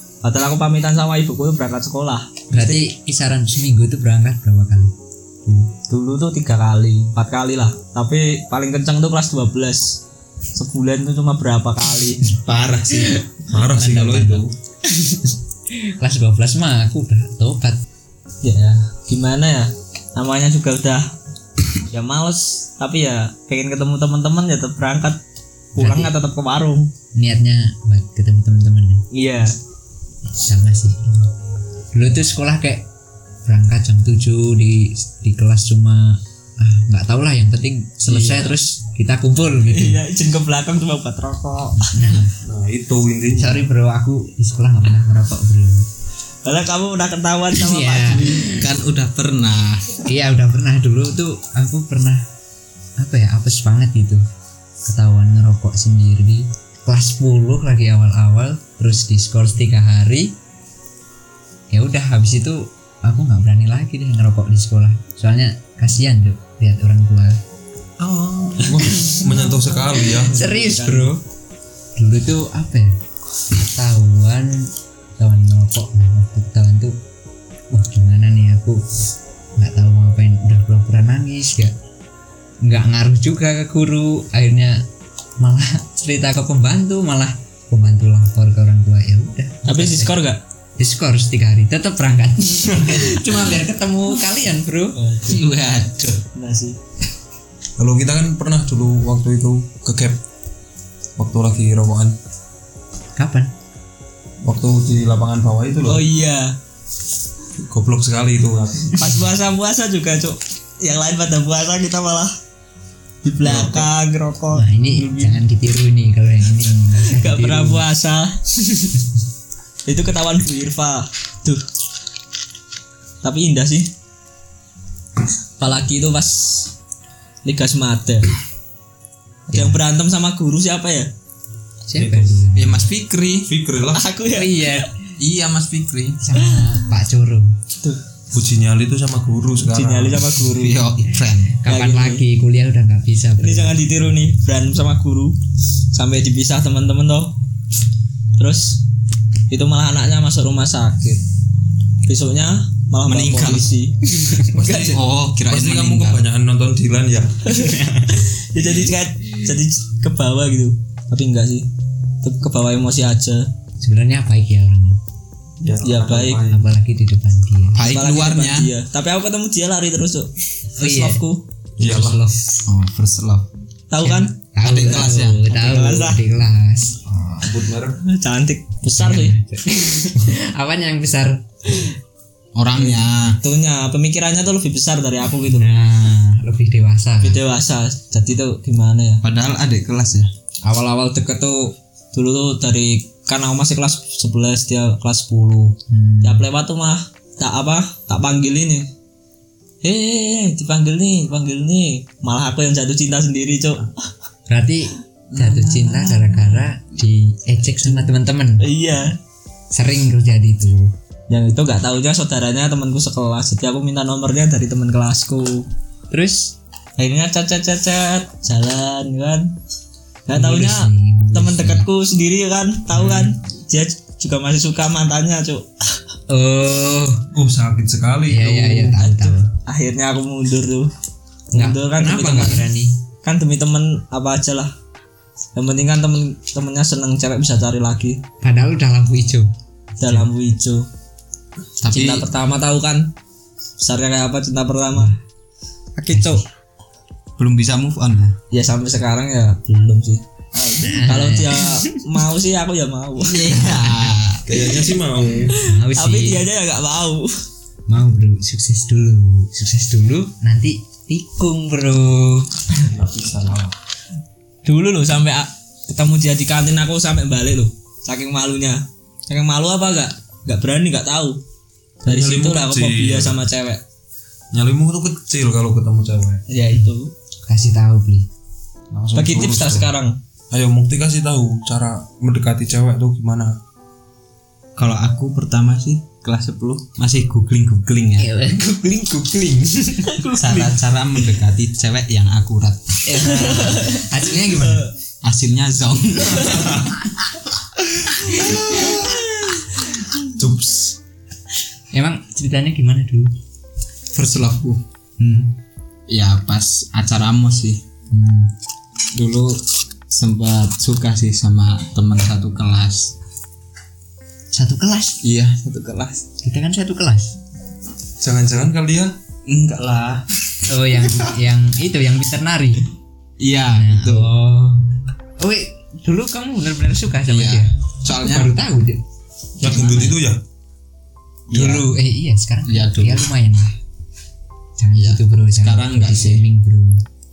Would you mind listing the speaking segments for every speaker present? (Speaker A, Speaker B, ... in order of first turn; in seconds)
Speaker A: 0.2-2.8, 5.9-10.0, 10.5-12.2, 18.4-21.1, 21.9-25.2, 25.7-26.9, 29.1-29.6, 38.0-38.6, 39.6-41.9, 46.4-48.5, 68.1-68.5, 69.9-71.1, 89.7-90.4, 95.0-95.5, 96.3-96.8, 105.8-106.6, 109.0-112.3, 113.2-115.4, 117.1-119.0, 119.8-121.6, 123.2-123.9, 125.6-126.7, 127.4-128.3, 129.5-131.1, 133.8-134.9, 136.4-136.8, 139.7-140.8, 141.7-142.2, 143.4-145.4, 145.9-147.3, 148.3-148.8, 149.5-151.2, 152.0-155.0, 157.4-161.7, 162.2-163.5, 165.8-166.4, 167.8-171.4, 173.9-176.2, 178.0-179.3, 182.7-185.7, 187.2-189.2, 190.6-198.9, 199.8-203.9, 208.6-209.2, 211.3-215.7, 217.0-219.5, 220.3-225.7, 229.0-230.9, 231.5-232.7, 233.2-234.7, 235.5-238.2, 240.0-240.9, 241.9-243.1, 243.8-245.1, 245.9-246.4, 248.5-253.9, 255.9-257.3, 264.6-271.4, 272.0-273.8, 276.5-277.1, 279.1-280.1, 290.1-290.8, 293.2-294.9
Speaker B: 2.5-4.9, 5.4-5.7, 13.7-17.8, 25.8-26.1, 27.1-29.0, 30.4-31.3, 31.9-32.9, 33.4-40.0, 41.9-42.3, 43.4-45.9, 47.6-48.7, 50.0-52.2, 53.0-54.2, 54.9-60.4, 61.7-67.4, 68.5-69.6, 70.2-71.2, 72.0-73.0, 73.5-77.0, 77.7-78.8, 79.5-81.8, 82.6-84.9, 85.4-90.2, 90.8-95.0, 103.2-103.5, 114.5-117.8, 129.5-129.8, 131.9-132.9, 134.3-134.9, 136.2-137.5, 141.6-143.8, 157.7-158.2, 163.8-165.0, 166.5-167.8, 170.8-171.2, 171.8-172.4, 174.0-177.0, 179.0-181.9, 185.5-187.4, 195.9-196.4, 204.5-208.7, 209.7-210.9, 216.1-216.6, 220.3-221.8, 222.9-223.3, 226.3-227.2, 228.3-229.5, 231.5-233.0, 238.4-239.5, 240.0-240.3, 246.1-246.4, 250.8-252.0, 255.6-256.4, 257.9-262.6, 277.5-278.3, 288.2-290.2, 293.0-294.9, 298.3-299.0, 301.9-303.3, 305.2-305.5, 308.1-308.5, 314.5-315.2, 316.4-317.4, 320.7-322.9, 323.7-324.9, 325.4-329.0, 329.6-330.1, 331.5-333.8, 334.8-337.0
Speaker C: 12.4-13.2, 13.7-14.5, 48.6-50.0, 95.2-96.2, 113.4-113.9, 132.5-133.5, 135.2-136.2, 140.5-141.6, 153.0-153.7, 154.7-156.2, 167.7-168.7, 172.6-173.5, 174.6-175.4, 182.5-183.4, 189.2-190.3, 205.3-206.7, 241.8-242.3, 247.4-248.4, 253.2-254.5, 284.8-288.3, 290.4-293.0, 295.2-296.9, 304.1-304.8, 306.1-307.8, 309.1-313.1, 315.2-316.2, 319.4-320.2, 323.4-324.3, 327.3-328.5, 331.5-332.0, 332.6-333.3, 334.9-336.4
Speaker D: 13.5-14.5, 42.4-43.6, 68.6-70.4, 97.8-100.2, 101.2-102.2, 104.4-106.1, 107.6-109.2, 131.9-132.4, 133.4-134.0, 138.3-140.3, 154.5-157.5, 165.6-166.7, 171.8-172.3, 177.3-178.0, 227.3-228.9, 254.4-255.6, 262.9-263.7, 272.0-273.4, 274.5-276.4, 278.9-279.9, 280.5-283.6, 300.4-300.9, 318.2-319.2, 329.6-330.4